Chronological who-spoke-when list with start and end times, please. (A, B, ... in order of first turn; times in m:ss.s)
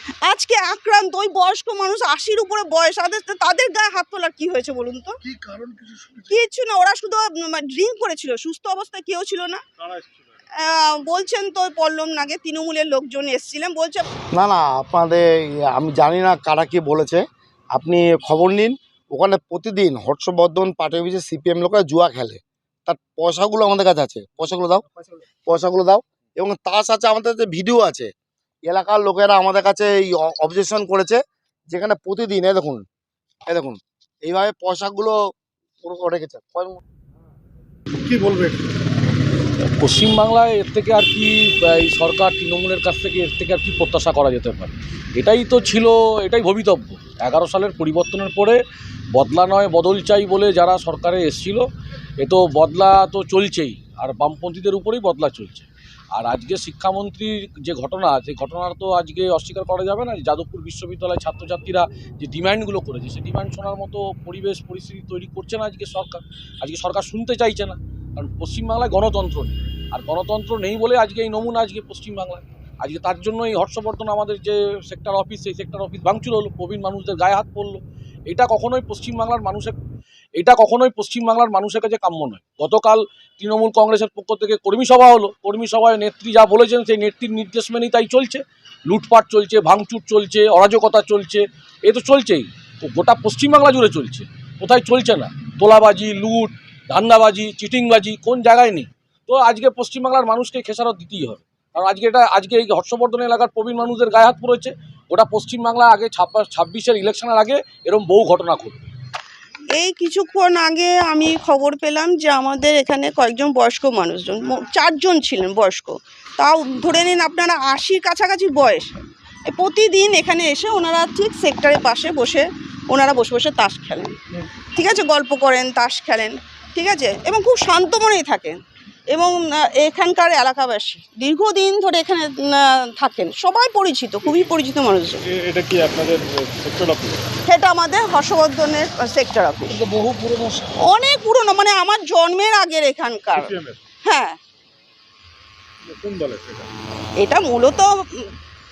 0:00.2-0:05.2 A
0:05.2-0:06.4 B
0:06.3-0:09.6 A
0:09.8-0:10.4 C
0:10.6-0:14.1 A
0:14.3-0:17.2 D
0:17.7-0:24.8 D
0:25.5-0:28.1 D
0:28.6-0:31.2 D
0:31.7-0:32.8 D
0:33.5-0:35.2 D
0:35.8-0:36.8 D
0:39.8-0:48.6 E
0:49.1-0:51.6 E
0:52.2-1:19.8 E
1:20.4-1:48.9 E
1:49.7-2:08.6 A
2:09.1-2:15.2 A
2:14.2-2:14.5 C
2:15.2-2:17.2 C
2:17.4-2:19.8 A
2:19.7-2:20.7 B
2:20.8-2:23.5 A
2:23.3-2:23.8 C
2:24.0-2:24.4 A
2:25.8-2:26.7 C
2:27.2-2:28.3 A